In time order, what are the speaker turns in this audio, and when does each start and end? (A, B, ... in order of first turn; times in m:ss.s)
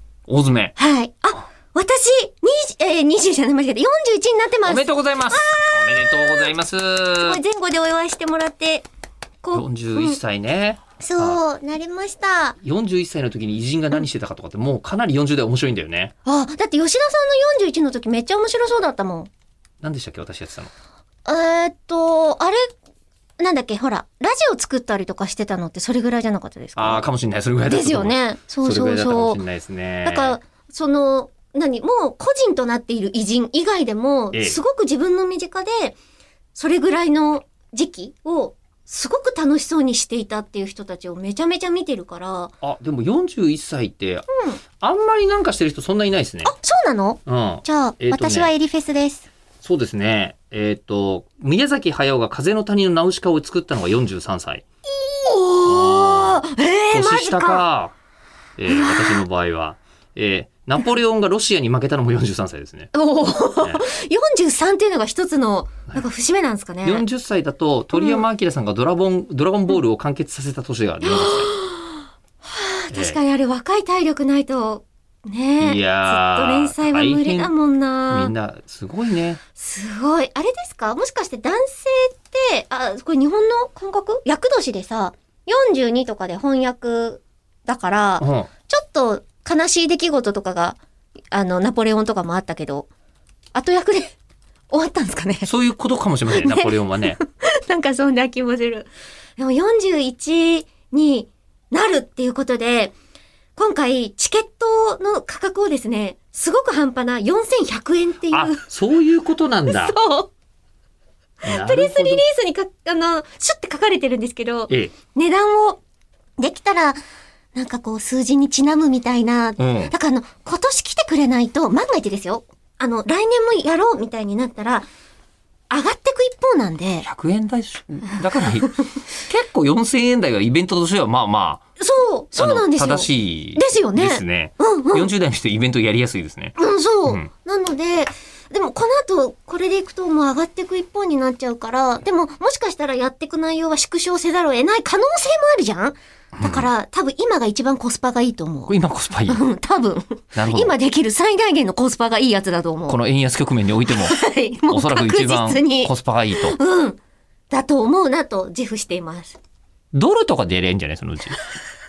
0:00.3-0:00.8 A
0:00.8-0:06.5 B
0:04.6-0:07.4 A
0:07.2-0:08.9 B
0:09.4-0:10.2 B
0:09.5-0:11.4 A
0:11.0-0:12.6 B
0:12.6-0:16.1 A
0:16.2-0:19.3 B
0:19.8-0:20.7 A
0:21.2-0:22.7 B
0:23.4-0:27.0 B
0:26.8-0:30.4 A
0:27.7-0:29.4 B
0:30.0-0:36.0 B
0:34.3-0:34.6 A
0:36.6-0:42.5 B
0:42.6-0:44.3 A
0:44.3-0:44.6 B
0:44.8-0:46.5 A
0:46.4-0:49.3 B
0:47.3-0:48.5 A
0:49.6-0:54.6 A
0:54.9-0:57.6 B
0:55.6-0:57.9 A
0:58.6-1:02.9 A
0:58.7-0:59.2 B
1:02.9-1:07.0 B
1:03.6-1:03.9 A
1:06.8-1:11.5 A
1:08.0-1:08.2 B
1:11.0-1:18.3 B
1:12.9-1:13.2 A
1:15.6-1:17.5 A
1:18.1-1:19.4 A
1:19.6-1:30.8 B
1:28.2-1:28.5 A
1:31.3-1:32.9 B
1:33.5-1:34.2 B
1:34.7-1:35.5 B
1:35.4-1:37.2 A
1:36.3-1:42.9 B
1:43.6-1:48.6 B
1:48.3-1:50.0 A
1:49.7-1:50.3 B
1:51.4-1:55.8 B
1:51.4-1:52.2 A
1:54.7-1:54.9 A
1:56.4-1:57.0 B
1:57.6-2:04.9 B
1:59.6-1:59.9 A
2:05.7-2:07.1 B
2:07.0-2:11.6 A
2:11.8-2:15.1 B
2:12.4-2:16.6 A
2:16.6-2:28.8 B
2:26.4-2:26.7 A
2:28.7-2:29.4 A
2:29.3-2:33.0 B
2:30.4-2:30.8 A
2:32.9-2:36.6 A
2:33.9-2:37.0 B
2:37.5-2:39.4 B
2:39.9-2:41.4 A